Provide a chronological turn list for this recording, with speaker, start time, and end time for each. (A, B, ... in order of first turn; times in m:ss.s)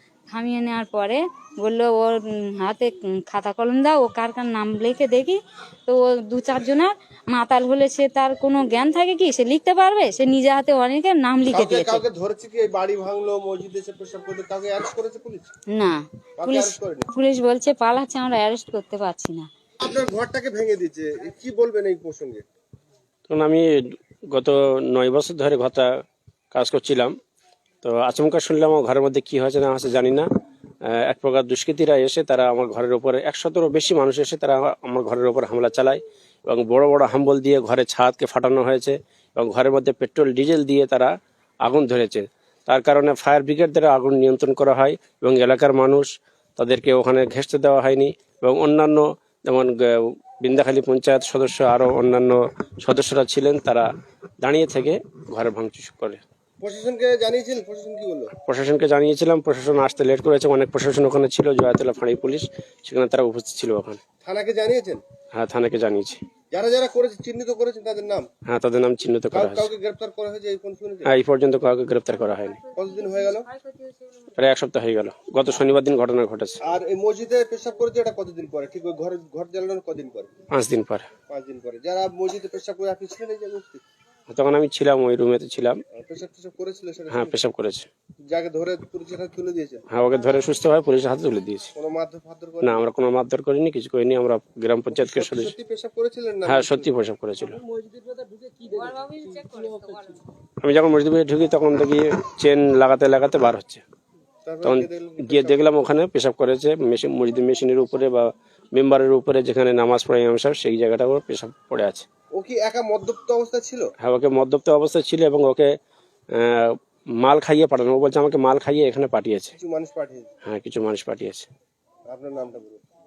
0:00.3-0:12.0 A
0:11.5-0:15.4 B
0:15.7-0:19.5 A
0:16.4-0:17.0 B
0:19.8-0:22.4 B
0:23.3-0:23.6 C
0:24.3-0:25.9 C
0:26.5-0:27.1 C
0:27.8-0:30.2 C
0:31.0-0:41.1 C
0:41.6-0:46.1 C
0:46.6-0:49.7 C
0:50.4-0:53.8 C
0:54.4-0:56.2 C
0:56.6-0:58.3 B
0:58.4-1:04.0 C
1:04.2-1:05.0 B
1:05.3-1:06.2 C
1:06.5-1:08.2 B
1:08.5-1:09.7 C
1:09.3-1:11.2 B
1:11.0-1:12.6 C
1:12.7-1:13.5 B
1:14.4-1:16.6 C
1:16.7-1:20.3 B
1:20.5-1:21.1 C
1:21.3-1:23.8 B
1:24.3-1:25.8 C
1:26.0-1:27.4 B
1:27.1-1:27.8 C
1:28.3-1:29.8 B
1:29.9-1:31.7 C
1:31.7-1:32.8 B
1:32.6-1:35.5 C
1:34.9-1:36.9 B
1:36.4-1:37.6 C
1:38.1-1:40.0 B
1:40.6-1:43.8 C
1:44.4-1:45.8 B
1:44.6-1:52.0 C
1:52.3-1:53.8 B
1:54.0-1:55.7 C
1:56.4-1:56.7 C
1:57.2-1:59.5 C
1:59.6-2:00.3 B
2:00.4-2:01.5 C
2:02.1-2:02.8 B